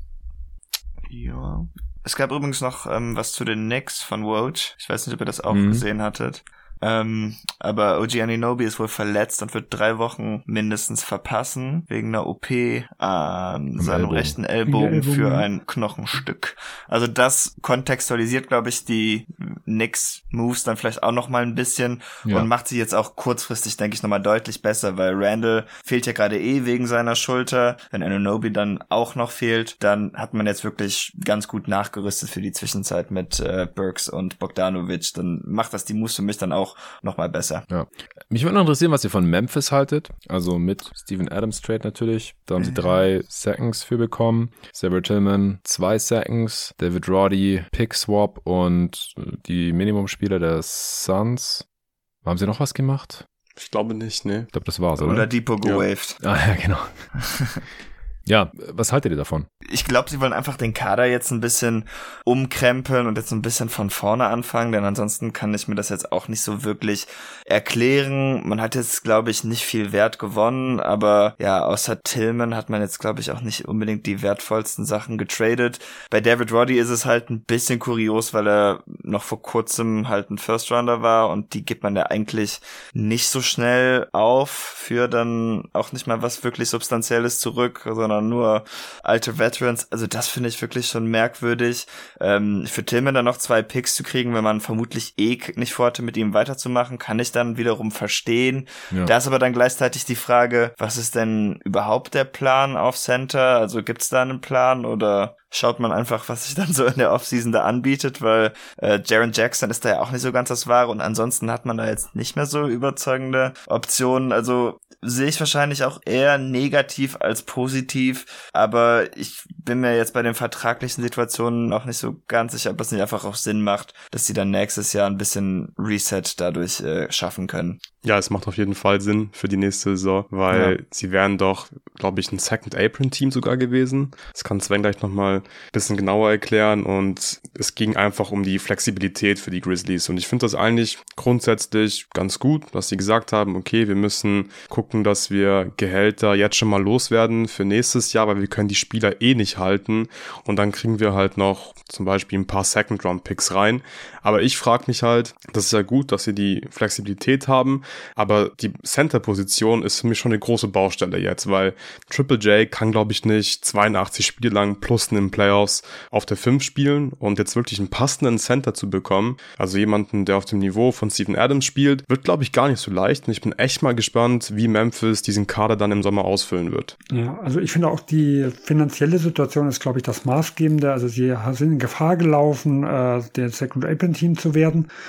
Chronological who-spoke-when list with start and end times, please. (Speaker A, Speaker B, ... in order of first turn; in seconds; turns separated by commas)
Speaker A: 1.1-37.6, Speaker B: 5.5-5.8, Speaker B: 13.8-14.4, Speaker C: 14.6-15.5, Speaker B: 37.7-51.6, Speaker A: 42.6-42.9, Speaker B: 52.2-53.2, Speaker D: 53.5-54.5, Speaker B: 54.5-55.2, Speaker A: 55.0-56.2, Speaker B: 56.2-57.0, Speaker A: 57.2-57.6, Speaker B: 58.2-59.5, Speaker A: 59.6-127.8, Speaker D: 128.0-176.9, Speaker A: 130.5-130.7, Speaker C: 177.1-184.9